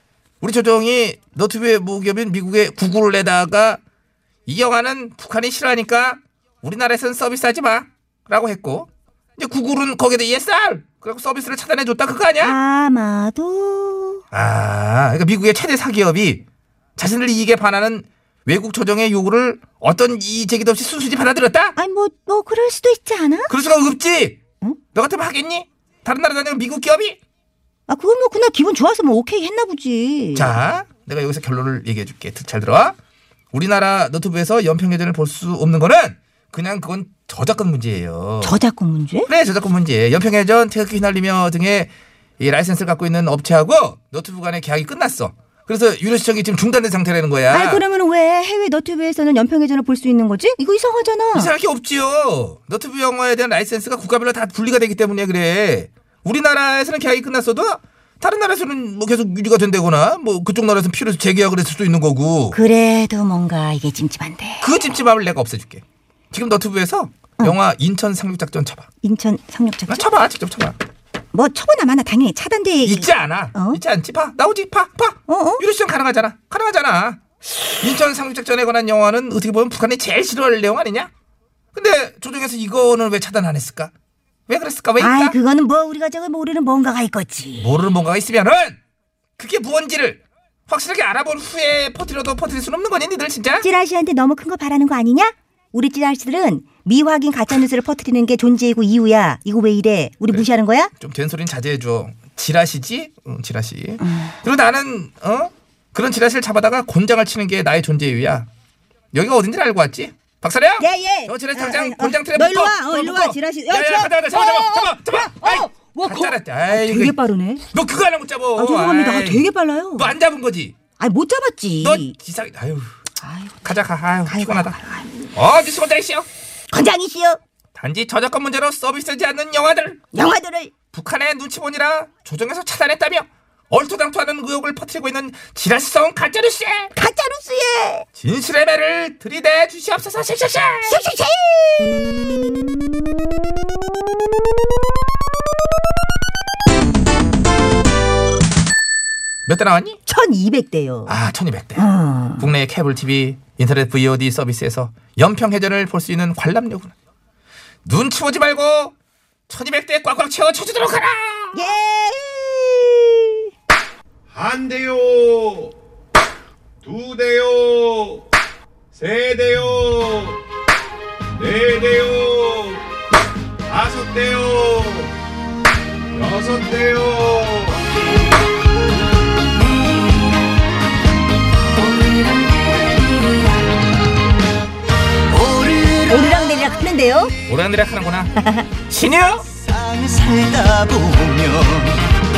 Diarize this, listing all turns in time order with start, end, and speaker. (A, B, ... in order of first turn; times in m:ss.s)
0:00.4-0:03.8 A
0:04.4-0:12.5 A
0:12.4-0:14.2 B
0:14.3-0:16.4 A
0:17.0-0:21.8 A
0:21.8-0:23.5 B
0:23.5-0:24.4 A
0:24.9-0:27.2 A
0:27.9-0:30.6 B
0:30.3-0:32.9 A
0:33.5-0:38.6 A
0:38.4-0:39.3 B
0:39.3-0:47.8 A
0:47.5-0:51.5 B
0:51.3-1:02.6 A
1:02.5-1:04.7 B
1:04.6-1:08.9 A
1:09.0-1:10.0 B
1:09.9-1:10.8 A
1:11.3-1:13.8 B
1:12.8-1:17.2 A
1:15.3-1:15.6 B
1:17.8-1:21.1 A
1:21.7-1:23.9 A
1:24.5-1:25.4 A
1:25.0-1:27.7 B
1:27.6-1:28.8 A
1:29.4-1:33.6 A
1:33.6-1:40.9 B
1:41.0-1:48.5 A
1:44.0-1:44.3 B
1:49.1-1:57.2 A
1:50.8-1:57.6 B
1:57.7-1:59.4 A
1:58.6-2:00.1 B
2:00.0-2:00.7 A
2:01.0-2:02.1 B
2:01.8-2:02.9 A
2:03.2-2:05.3 B
2:03.6-2:04.8 A
2:05.3-2:06.3 A
2:06.7-2:07.4 B
2:07.8-2:10.0 A
2:10.1-2:10.7 B
2:10.9-2:16.9 A
2:16.9-2:18.0 B
2:18.2-2:21.0 A
2:20.8-2:22.4 B
2:29.4-2:30.0 A
2:30.0-2:31.2 B
2:31.1-2:31.9 A
2:31.8-2:32.5 B
2:32.4-2:36.9 A
2:37.8-2:38.9 A
2:39.5-2:41.6 A
2:41.5-2:43.4 B
2:44.3-2:45.7 C
2:46.8-2:48.2 C
2:48.9-2:50.4 C
2:51.4-2:52.8 C
2:53.7-2:55.1 C
2:56.1-2:57.8 C
3:01.8-3:03.2 D
3:05.3-3:06.5 D
3:06.1-3:07.3 B
3:07.5-3:09.4 A
3:08.4-3:08.6 B
3:09.6-3:12.0 D